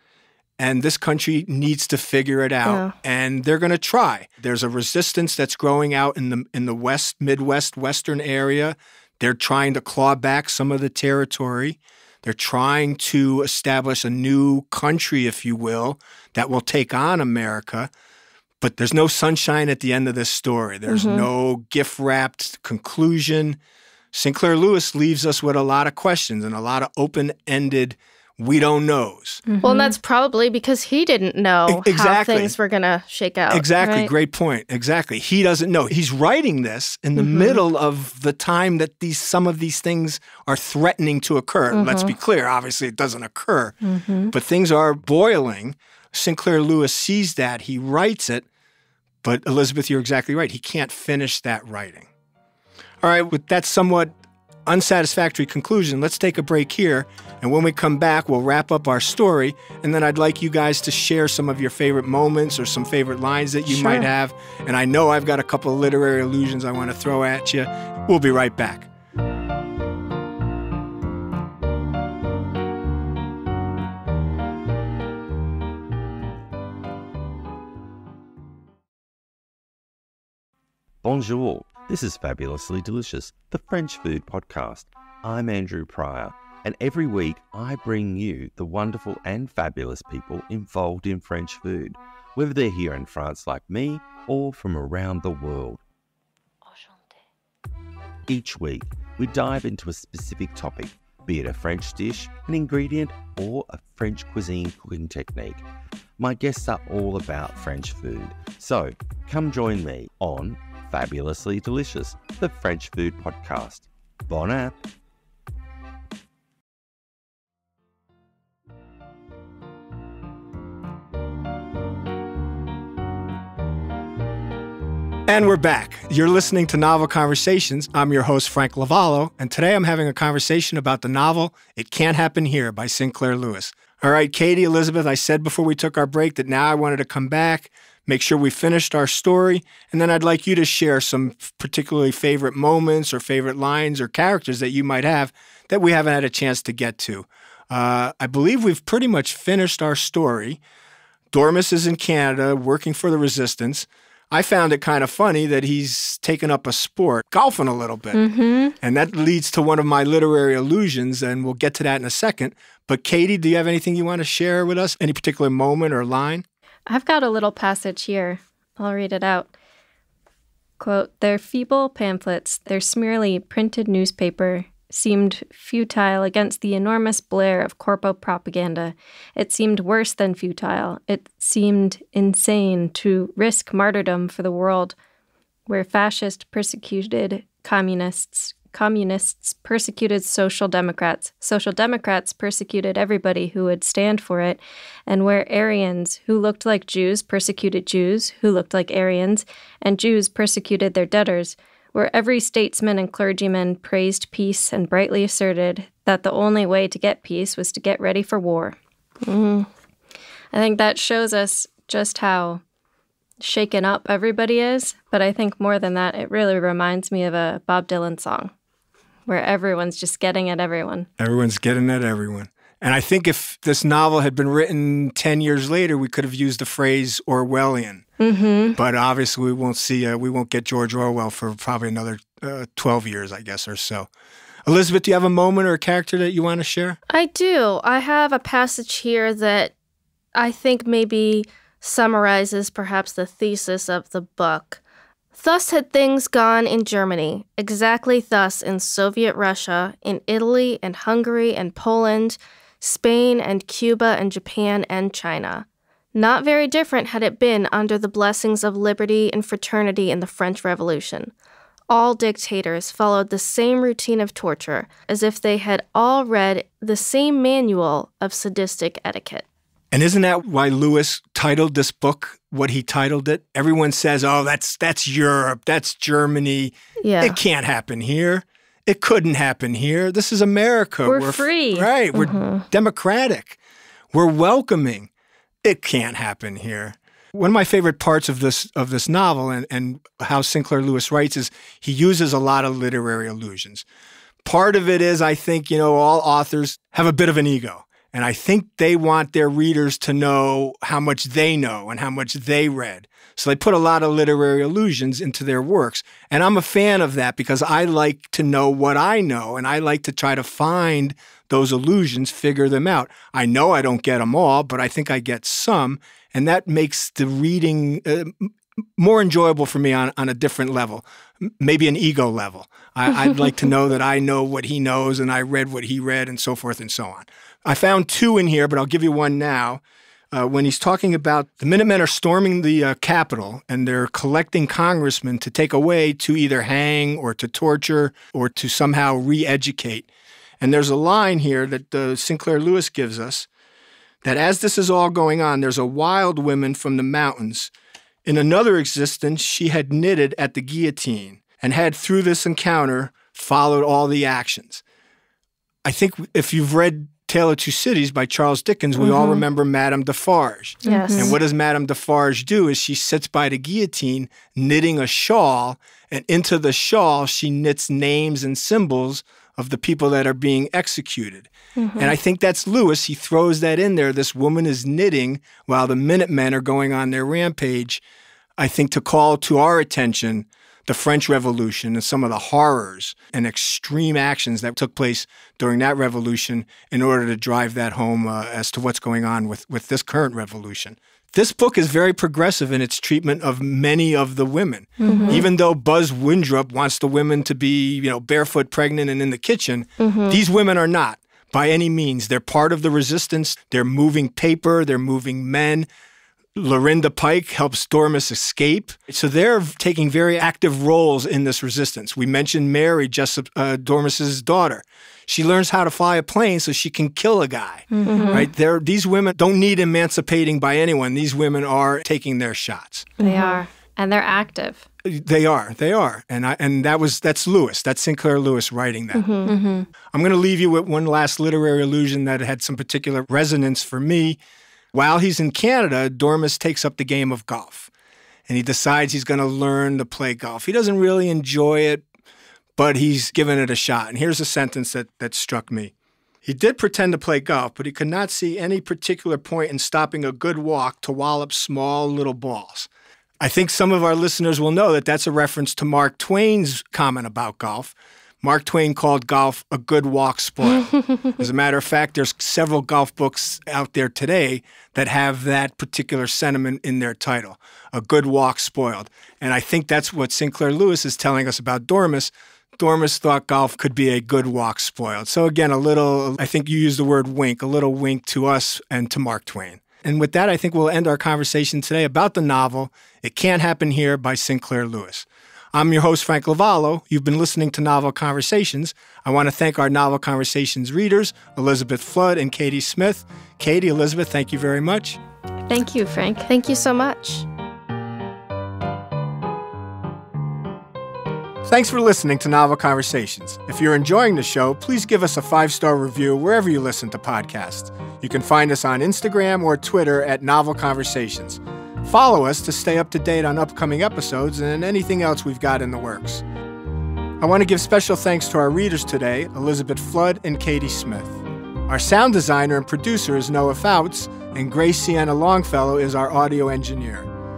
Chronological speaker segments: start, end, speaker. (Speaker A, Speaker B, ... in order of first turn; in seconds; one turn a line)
Speaker A: 0.6-17.9
Speaker B: 2.6-2.9
Speaker A: 18.6-23.6
Speaker B: 20.9-21.3
Speaker A: 24.1-29.4
Speaker C: 29.5-29.9
Speaker B: 29.6-34.0
Speaker A: 31.7-32.5
Speaker A: 33.5-43.8
Speaker C: 33.8-34.1
Speaker B: 37.2-37.5
Speaker B: 41.7-42.1
Speaker C: 43.8-44.3
Speaker A: 44.3-48.4
Speaker A: 49.2-52.1
Speaker A: 53.0-54.1
Speaker A: 54.7-68.9
Speaker B: 63.7-64.0
Speaker D: 81.0-95.8
Speaker D: 98.3-105.7
Speaker D: 106.2-114.8
Speaker A: 125.3-150.6
Speaker A: 151.3-158.2
Speaker C: 158.1-158.7
Speaker A: 158.8-166.4
Speaker C: 166.9-169.5
Speaker C: 170.8-184.9
Speaker C: 185.7-208.8
Speaker B: 209.2-209.7
Speaker C: 210.5-212.6
Speaker C: 213.4-218.5
Speaker C: 219.3-221.1
Speaker A: 221.2-228.1
Speaker C: 228.2-228.8
Speaker A: 228.8-234.1
Speaker A: 234.7-237.0
Speaker B: 237.1-239.7
Speaker B: 240.3-244.8
Speaker B: 245.3-261.3
Speaker B: 261.9-269.4
Speaker A: 269.9-283.6
Speaker B: 277.0-277.4
Speaker C: 281.1-281.9
Speaker B: 282.1-282.6
Speaker A: 284.1-285.1
Speaker A: 285.6-293.8
Speaker A: 294.4-329.8
Speaker C: 323.1-323.5
Speaker A: 330.3-340.1
Speaker A: 340.6-343.5
Speaker A: 344.2-347.7
Speaker A: 348.2-354.8
Speaker A: 355.8-378.0
Speaker B: 359.0-359.4
Speaker C: 360.8-361.4
Speaker B: 360.8-361.4
Speaker B: 371.8-372.1
Speaker A: 378.6-405.9
Speaker B: 395.0-395.5
Speaker C: 395.0-395.4
Speaker B: 400.0-400.4
Speaker A: 406.6-423.1
Speaker C: 417.9-418.5
Speaker B: 418.1-418.5
Speaker B: 423.2-423.6
Speaker C: 423.2-424.8
Speaker A: 425.0-429.3
Speaker B: 429.1-429.5
Speaker C: 429.4-429.9
Speaker A: 430.1-434.4
Speaker A: 434.9-437.9
Speaker A: 438.5-442.0
Speaker A: 442.8-445.9
Speaker A: 446.4-452.9
Speaker A: 453.4-495.2
Speaker C: 495.7-496.5
Speaker B: 496.5-497.4
Speaker A: 501.6-516.4
Speaker A: 517.4-527.3